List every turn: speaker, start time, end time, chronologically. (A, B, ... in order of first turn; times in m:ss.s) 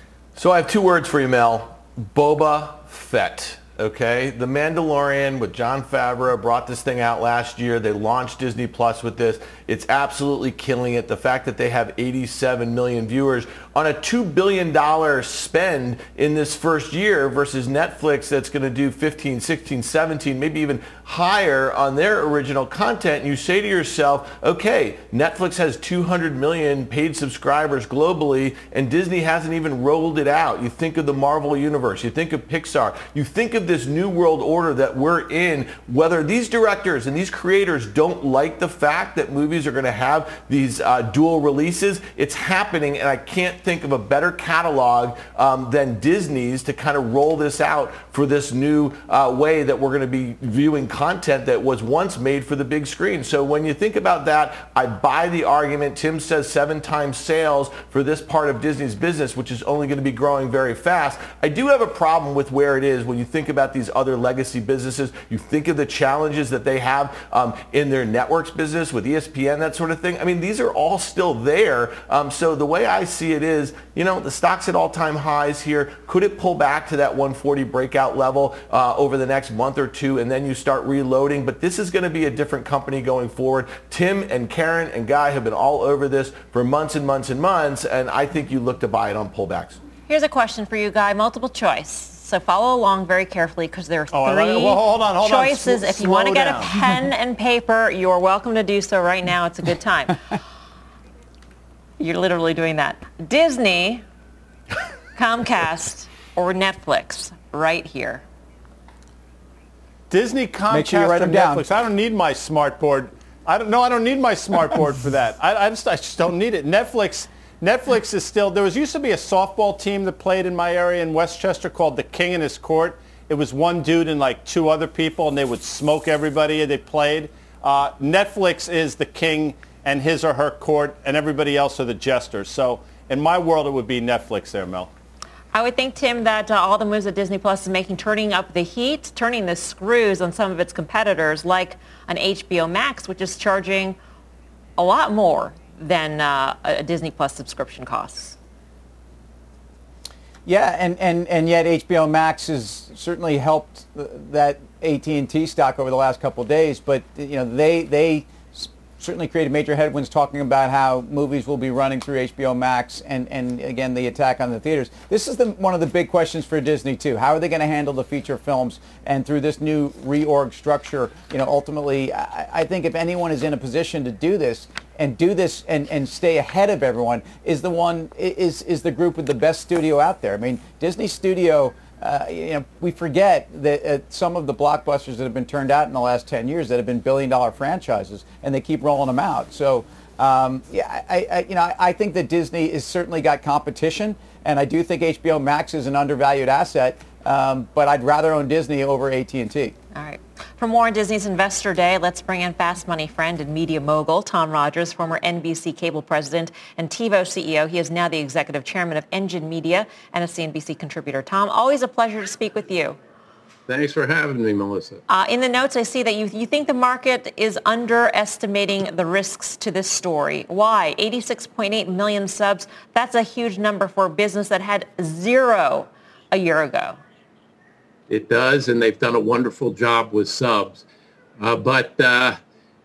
0:00.4-1:29.8 A
1:30.1-1:40.3 B
1:34.1-1:36.8 C
1:42.0-1:44.0 B
1:45.2-1:48.2 B
1:50.1-2:14.9 C
1:50.7-1:51.7 D
2:15.5-2:24.0 B
2:24.8-2:28.4 B
2:30.4-3:19.8 D
3:19.9-3:33.0 B
3:33.7-3:35.0 E
3:35.1-3:47.0 B
3:48.1-3:50.8 E
3:51.4-3:52.4 E